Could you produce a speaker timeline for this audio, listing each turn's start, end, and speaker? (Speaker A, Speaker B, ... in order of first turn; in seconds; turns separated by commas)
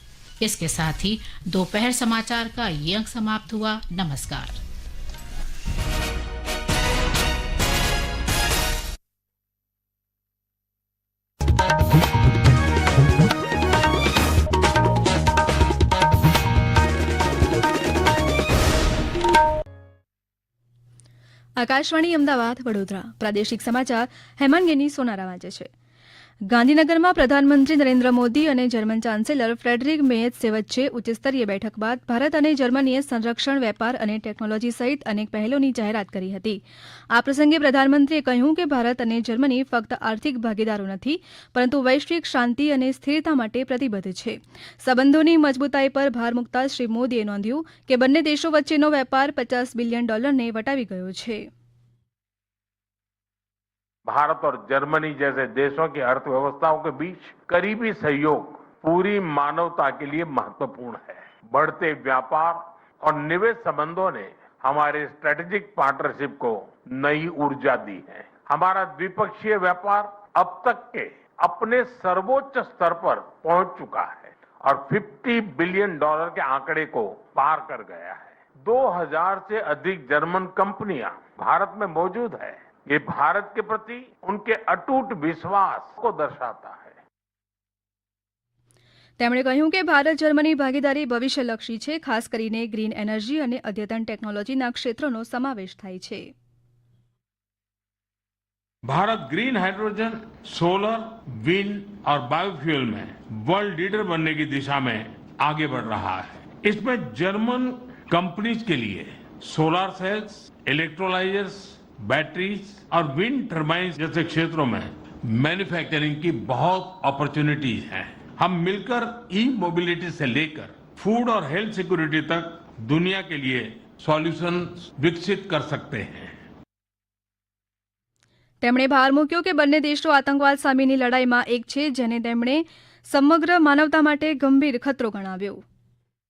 Speaker A: 0.4-4.6, Speaker B: 21.6-25.7, Speaker B: 26.5-36.6, Speaker B: 37.1-51.4, Speaker C: 54.1-86.9, Speaker B: 89.2-96.2, Speaker C: 98.9-126.3, Speaker B: 128.6-135.6